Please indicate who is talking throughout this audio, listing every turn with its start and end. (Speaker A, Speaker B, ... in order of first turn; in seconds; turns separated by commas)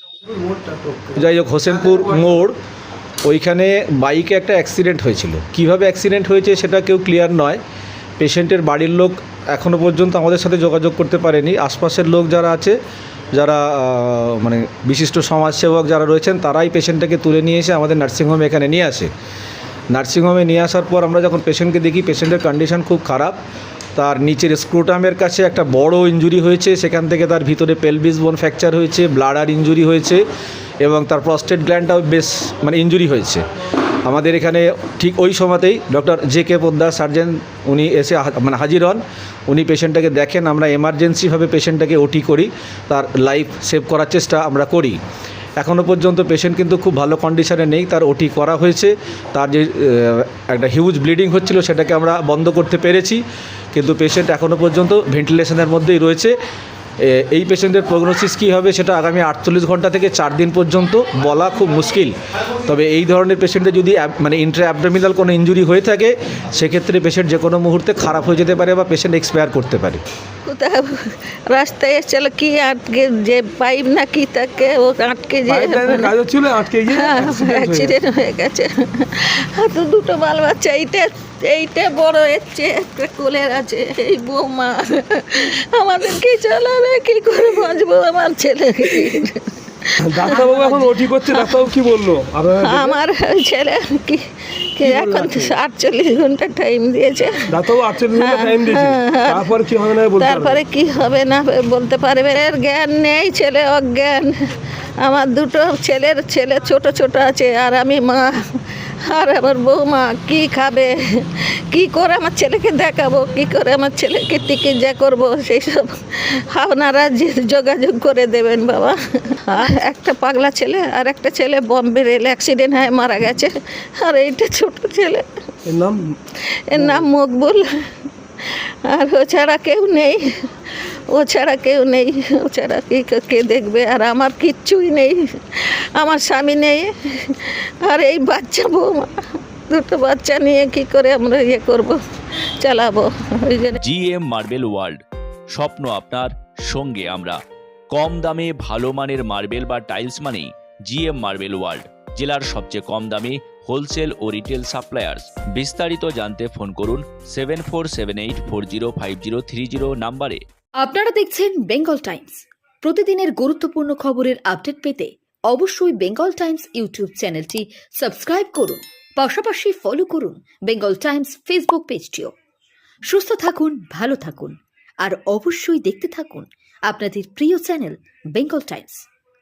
Speaker A: 0.2-2.3, Speaker B: 1.2-2.5, Speaker B: 3.2-7.6, Speaker B: 8.2-12.8, Speaker B: 13.3-19.1, Speaker B: 19.9-23.4, Speaker B: 23.9-30.2, Speaker B: 30.8-33.4, Speaker B: 34.0-45.0, Speaker B: 45.6-53.2, Speaker B: 53.7-56.3, Speaker B: 57.0-62.1, Speaker B: 62.6-70.0, Speaker C: 70.5-70.9, Speaker C: 71.5-76.1, Speaker A: 75.5-77.9, Speaker C: 76.9-89.3, Speaker A: 90.0-93.0, Speaker C: 90.2-91.6, Speaker C: 92.6-94.2, Speaker C: 94.8-97.4, Speaker A: 94.8-95.5, Speaker A: 97.5-100.6, Speaker C: 98.1-99.5, Speaker C: 100.2-104.3, Speaker C: 105.0-108.3, Speaker C: 109.0-125.2, Speaker A: 125.7-126.0, Speaker C: 126.7-127.6, Speaker A: 126.7-127.1, Speaker C: 128.5-130.2, Speaker C: 131.1-139.1, Speaker C: 139.7-142.0, Speaker C: 142.6-143.8, Speaker D: 143.8-147.4, Speaker D: 147.9-160.4, Speaker E: 160.8-172.3, Speaker E: 173.1-179.1